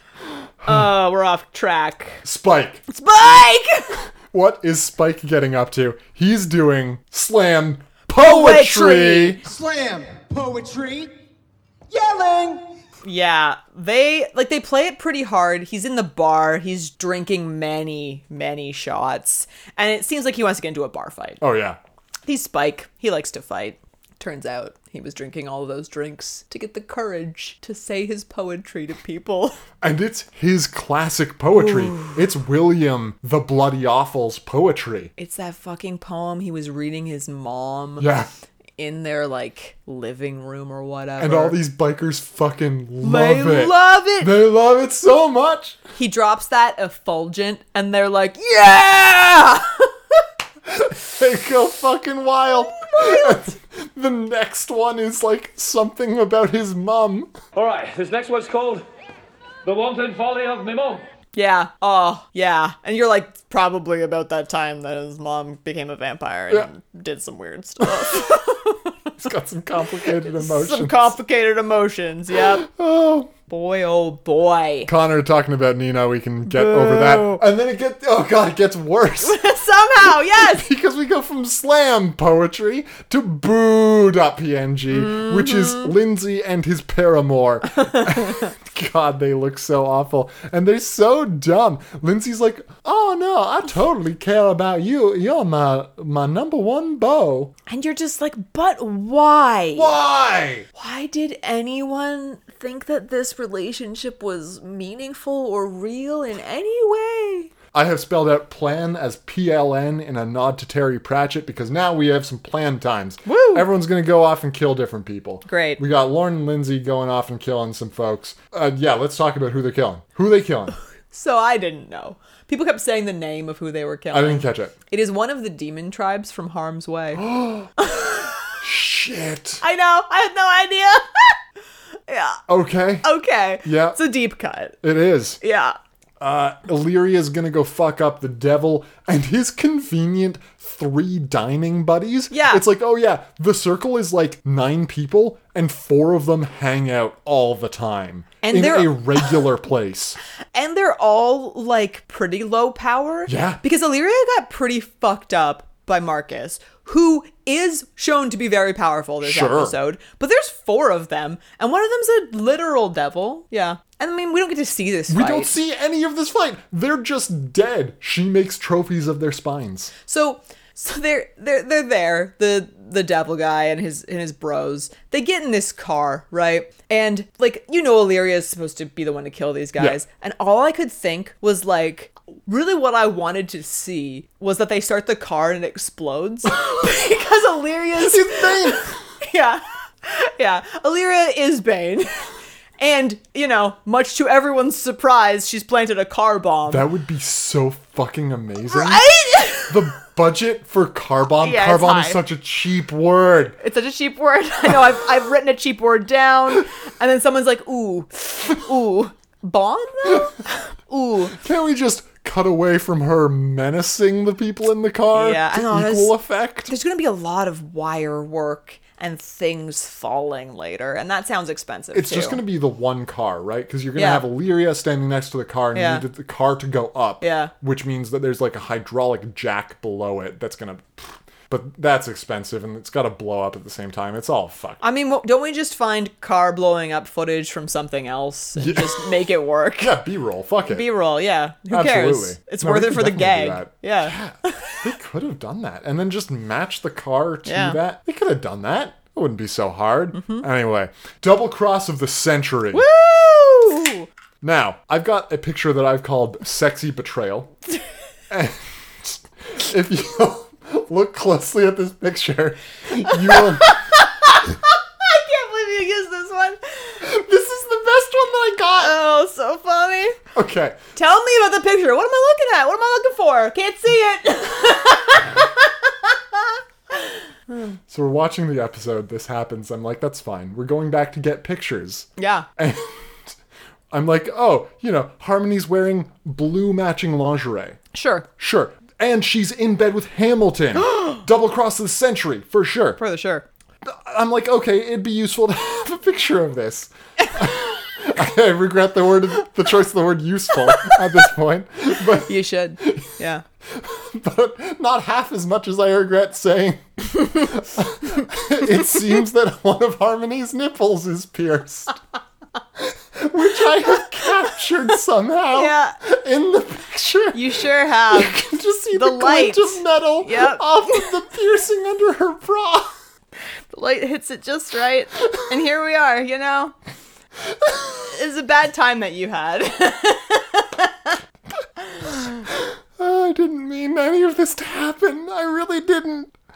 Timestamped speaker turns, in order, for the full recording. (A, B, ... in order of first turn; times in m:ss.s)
0:00.6-0:02.2 A
0:02.2-0:02.8 B
0:02.9-0:04.0 A
0:04.2-0:09.5 B
0:08.1-0:09.4 A
0:09.5-0:11.1 C
0:11.9-0:12.6 C
0:13.0-0:21.4 A
0:21.4-0:21.8 B
0:22.3-0:29.6 A
0:29.8-0:35.1 B
0:35.2-0:38.1 A
0:38.0-0:38.3 B
0:38.8-0:41.6 A
0:41.2-0:45.8 B
0:43.0-0:44.3 A
0:46.0-0:50.2 A
0:50.7-0:57.3 B
0:52.8-0:53.5 A
0:57.6-0:58.8 D
0:59.7-1:01.0 D
1:01.3-1:09.0 A
1:07.8-1:08.6 B
1:09.2-1:11.2 B
1:10.0-1:12.6 A
1:12.4-1:13.3 B
1:13.5-1:14.9 A
1:14.9-1:19.4 B
1:16.5-1:17.4 A
1:19.2-1:20.7 A
1:20.3-1:37.5 B
1:24.9-1:25.9 A
1:37.7-1:39.9 A
1:39.8-1:40.7 B
1:40.8-1:47.5 A
1:47.7-2:00.8 B
1:53.2-1:53.7 A
1:55.5-1:55.8 A
2:01.1-2:07.3 A
2:04.1-2:04.7 B
2:07.2-2:07.7 B
2:07.8-2:08.6 A
2:08.6-2:09.6 B
2:09.6-2:11.4 A
2:12.1-2:12.4 A
2:12.5-2:13.1 B
2:13.0-2:14.8 A
2:13.6-2:14.0 B
2:14.8-2:15.4 B
2:15.4-2:15.8 A
2:16.2-2:30.2 B
2:22.3-2:22.6 A
2:28.4-2:29.3 A
2:30.5-2:45.5 A
2:33.3-2:33.6 B
2:39.2-2:39.8 B
2:45.1-2:49.9 B
2:50.0-3:16.8 A
3:08.0-3:08.9 B
3:16.7-3:19.1 B
3:18.7-3:19.8 A
3:19.6-3:23.6 B
3:21.4-3:22.2 A
3:23.6-3:31.4 A
3:31.3-3:36.7 B
3:35.1-3:42.4 A
3:41.9-3:54.8 B
3:44.0-3:44.2 A
3:45.7-3:46.0 A
3:47.2-3:47.5 A
3:54.8-4:00.0 A
3:58.6-3:59.3 B
3:59.8-4:00.9 B
4:00.7-4:04.8 A
4:01.7-4:12.9 B
4:07.5-4:07.8 A
4:10.1-4:10.4 A
4:12.7-4:14.1 A
4:14.4-4:17.5 B
4:18.3-4:23.8 B
4:23.1-4:27.0 A
4:27.0-4:29.0 B
4:28.8-4:30.2 A
4:30.3-4:30.8 B
4:31.0-4:36.5 A
4:37.9-4:43.3 B
4:42.2-4:42.5 A
4:43.9-4:47.8 B
4:47.9-4:48.3 A
4:48.4-4:53.0 B
4:53.0-4:53.4 A
4:53.8-5:03.1 B
5:02.2-5:03.4 A
5:03.7-5:12.0 B
5:12.8-5:22.9 B
5:15.5-5:16.0 A
5:17.3-5:18.4 A
5:18.9-5:21.1 A
5:23.7-5:26.8 A
5:28.1-5:31.2 A
5:32.5-5:36.3 B